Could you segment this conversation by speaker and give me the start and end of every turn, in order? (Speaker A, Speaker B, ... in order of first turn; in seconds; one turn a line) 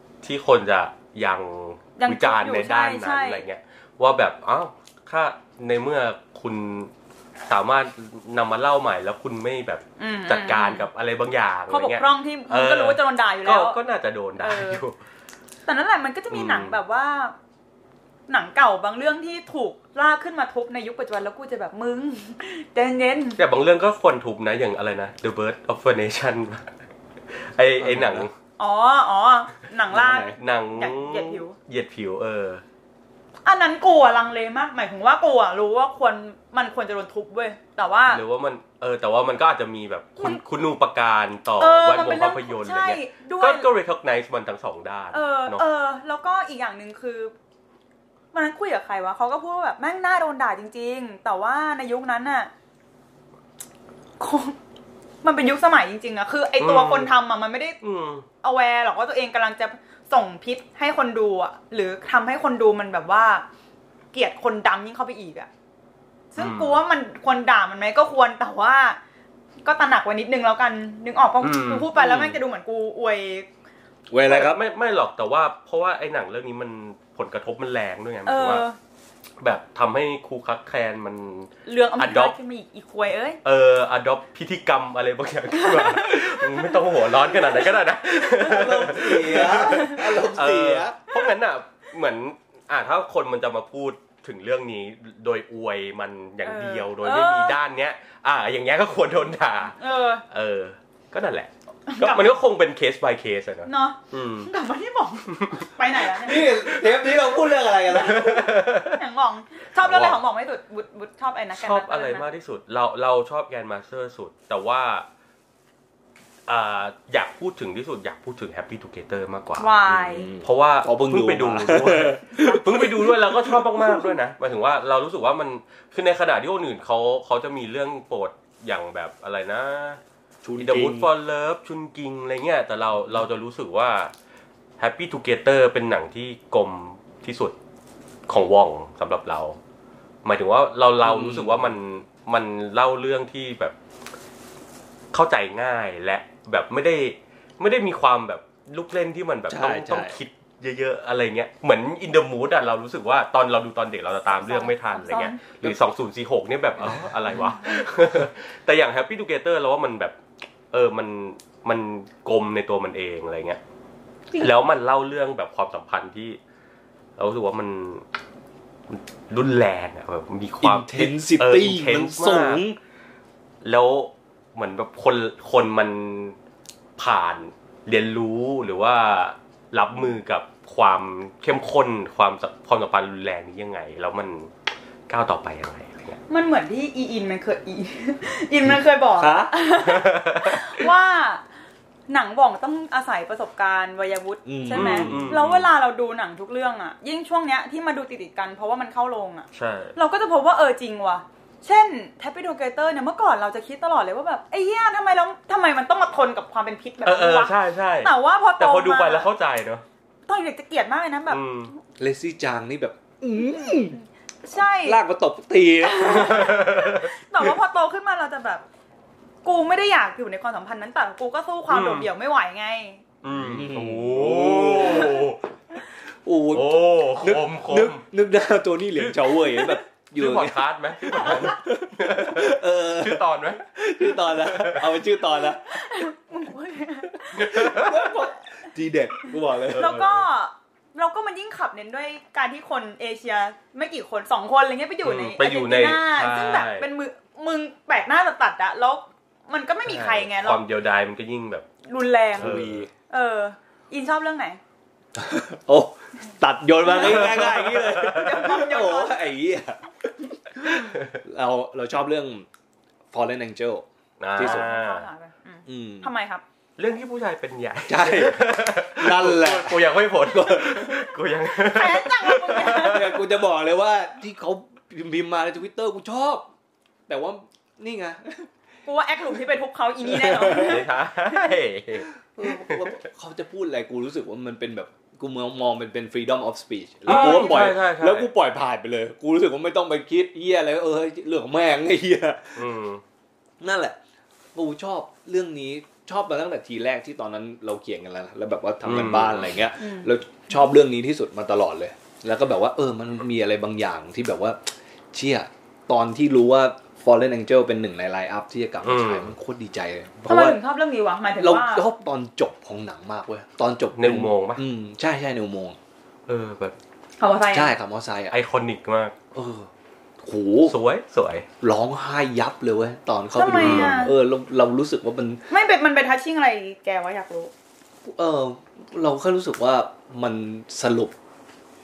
Speaker A: 0.2-6.9
Speaker B: 2.0-3.4
Speaker A: 7.5-15.0
Speaker B: 10.0-10.9
Speaker B: 11.7-13.8
Speaker B: 14.4-14.8
Speaker B: 15.7-17.3
Speaker A: 16.3-16.8
Speaker B: 18.3-23.4
Speaker A: 23.4-26.7
Speaker A: 27.3-28.3
Speaker C: 27.8-28.3
Speaker B: 28.6-31.6
Speaker C: 29.9-30.4
Speaker A: 30.3-32.6
Speaker B: 33.4-38.2
Speaker A: 38.1-45.6
Speaker B: 41.6-43.7
Speaker B: 45.1-47.3
Speaker B: 48.3-52.5
Speaker B: 54.2-54.6
Speaker B: 55.2-57.8
Speaker A: 56.6-57.1
Speaker A: 57.8-58.2
Speaker B: 58.4-63.4
Speaker B: 64.1-65.5
Speaker B: 66.3-69.0
Speaker A: 66.4-66.8
Speaker B: 69.6-73.5
Speaker A: 71.4-72.2
Speaker C: 72.0-72.4
Speaker C: 74.1-74.6
Speaker A: 74.2-78.6
Speaker B: 78.2-78.8
Speaker A: 79.4-82.3
Speaker B: 81.7-83.4
Speaker A: 83.4-104.5
Speaker B: 85.5-87.7
Speaker C: 88.3-91.0
Speaker B: 89.6-90.0
Speaker B: 96.4-97.6
Speaker B: 99.8-100.2
Speaker B: 101.9-102.3
Speaker B: 103.7-106.5
Speaker A: 105.3-105.7
Speaker C: 106.1-108.6
Speaker A: 106.3-107.3
Speaker A: 107.9-109.0
Speaker B: 108.7-112.2
Speaker A: 109.8-110.2
Speaker A: 111.5-115.0
Speaker A: 116.5-119.8
Speaker B: 119.6-120.3
Speaker C: 119.9-124.1
Speaker A: 120.4-130.0
Speaker C: 130.4-131.1
Speaker A: 130.6-134.1
Speaker A: 134.8-137.5
Speaker A: 138.3-139.6
Speaker A: 140.2-143.7
Speaker C: 141.0-141.8
Speaker A: 145.1-160.2
Speaker C: 149.5-150.2
Speaker B: 154.3-155.4
Speaker C: 156.8-157.6
Speaker A: 160.7-163.6
Speaker A: 164.3-166.4
Speaker A: 167.2-168.0
Speaker A: 168.9-172.6
Speaker C: 170.6-172.8
Speaker A: 173.6-176.3
Speaker A: 177.0-184.5
Speaker A: 185.1-186.2
Speaker B: 186.3-191.4
Speaker C: 189.2-189.5
Speaker A: 189.8-190.8
Speaker B: 192.1-209.3
Speaker C: 194.4-195.4
Speaker A: 194.7-195.7
Speaker A: 199.5-199.9
Speaker A: 207.0-209.8
Speaker B: 210.3-211.4
Speaker A: 211.3-211.7
Speaker C: 212.0-214.0
Speaker B: 213.3-215.0
Speaker C: 214.8-216.6
Speaker B: 215.8-218.6
Speaker A: 216.1-217.1
Speaker B: 219.4-223.0
Speaker A: 221.7-222.1
Speaker A: 223.2-225.4
Speaker C: 223.3-225.3
Speaker C: 226.2-235.8
Speaker A: 226.5-228.0
Speaker A: 229.0-235.0
Speaker B: 231.1-231.5
Speaker B: 235.2-237.9
Speaker C: 237.3-240.0
Speaker A: 237.3-238.1
Speaker A: 239.7-240.2
Speaker B: 239.7-250.6
Speaker A: 245.0-246.9
Speaker A: 249.8-251.7
Speaker B: 251.9-252.6
Speaker A: 252.4-252.9
Speaker C: 252.4-252.9
Speaker B: 253.1-254.6
Speaker C: 255.2-262.5
Speaker B: 256.9-257.3
Speaker A: 256.9-258.4
Speaker B: 258.0-259.2
Speaker C: 263.1-264.7
Speaker A: 264.2-265.1
Speaker B: 264.4-266.4
Speaker C: 265.6-266.1
Speaker A: 266.8-273.2
Speaker C: 267.8-271.1
Speaker B: 271.5-273.1
Speaker C: 272.7-276.5
Speaker C: 277.1-278.5
Speaker B: 278.9-281.5
Speaker C: 280.1-280.8
Speaker A: 280.3-282.9
Speaker C: 282.3-292.7
Speaker A: 287.1-288.3
Speaker B: 287.1-287.7
Speaker A: 292.6-293.0
Speaker C: 293.6-294.0
Speaker C: 294.5-310.6
Speaker A: 298.8-299.6
Speaker B: 299.8-300.1
Speaker A: 308.8-309.3
Speaker B: 310.3-311.9
Speaker C: 311.4-315.8
Speaker A: 313.9-314.6
Speaker A: 316.3-316.8
Speaker B: 317.2-317.7
Speaker C: 317.5-318.4
Speaker A: 318.3-319.1
Speaker C: 319.3-319.7
Speaker C: 320.2-320.8
Speaker A: 320.7-321.5
Speaker C: 321.6-325.4
Speaker B: 323.3-324.1
Speaker A: 323.5-324.1
Speaker B: 325.5-327.5
Speaker C: 328.0-331.1